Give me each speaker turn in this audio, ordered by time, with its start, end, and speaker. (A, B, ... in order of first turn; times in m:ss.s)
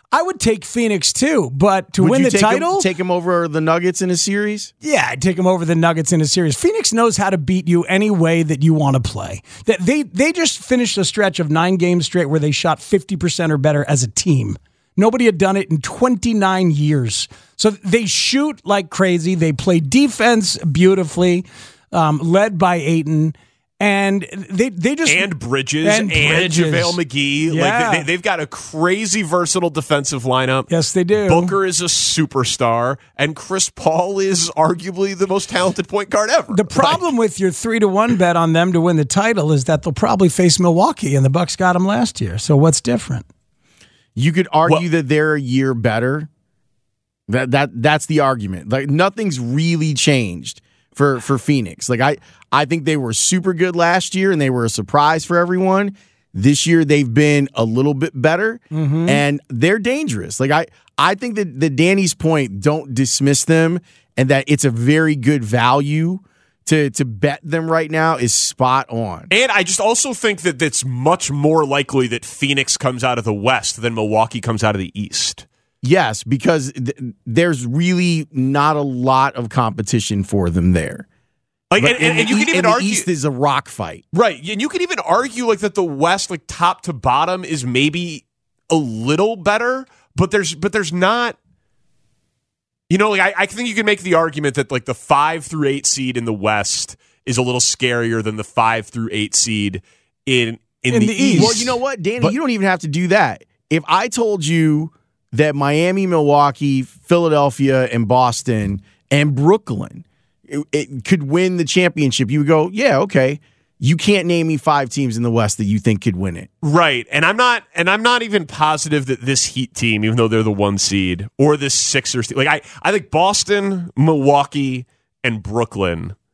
0:00.1-0:02.9 A
0:02.0-0:04.7 B
0:04.8-0:25.3 A
0:25.1-0:30.7 C
0:25.8-0:27.0 A
0:27.5-0:28.1 A
0:30.7-0:31.6 A
0:31.2-0:37.0 C
0:36.5-0:43.2 A
0:44.2-0:46.3 B
0:47.3-1:09.3 B
0:58.7-0:59.2 A
1:09.3-1:15.4 C
1:15.8-1:21.1 B
1:21.7-1:23.1 C
1:21.8-1:24.0 B
1:24.1-1:31.4 C
1:32.9-1:42.3 C
1:40.9-1:41.6 A
1:41.4-1:56.5 B
1:56.6-2:06.2 C